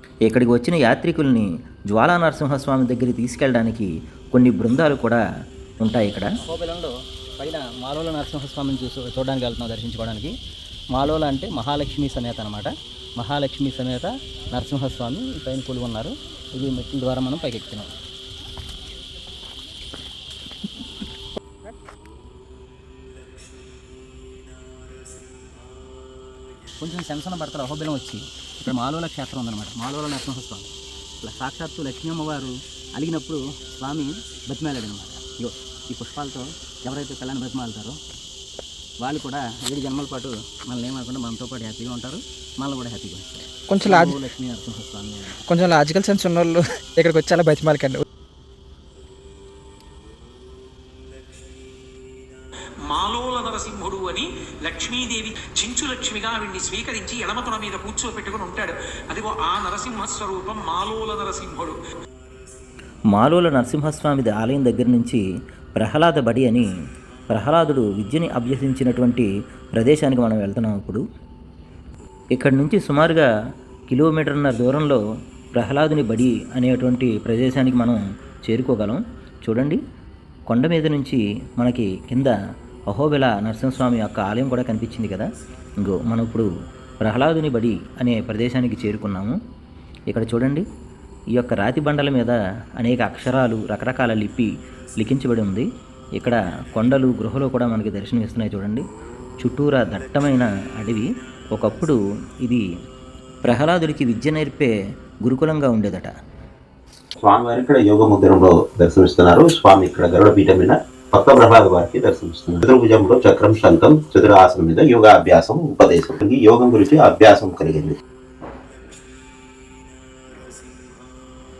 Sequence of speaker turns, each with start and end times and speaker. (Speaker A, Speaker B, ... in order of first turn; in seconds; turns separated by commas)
Speaker A: 0.3-5.2, Speaker A: 5.8-6.4, Speaker B: 6.4-10.3, Speaker B: 10.9-17.9, Speaker B: 26.8-30.7, Speaker B: 31.2-38.0, Speaker B: 39.0-45.4, Speaker C: 43.7-44.1, Speaker C: 45.5-48.0, Speaker D: 52.8-61.8, Speaker A: 63.1-65.2, Speaker A: 65.8-66.7, Speaker A: 67.3-71.0, Speaker A: 72.3-73.3, Speaker A: 73.9-75.0, Speaker A: 75.5-79.8, Speaker A: 80.5-82.3, Speaker A: 82.9-85.3, Speaker A: 85.8-86.5, Speaker A: 87.0-89.4, Speaker A: 90.1-90.6, Speaker A: 91.3-98.8, Speaker A: 99.4-102.6, Speaker A: 103.4-104.7, Speaker A: 105.2-106.1, Speaker E: 107.3-117.9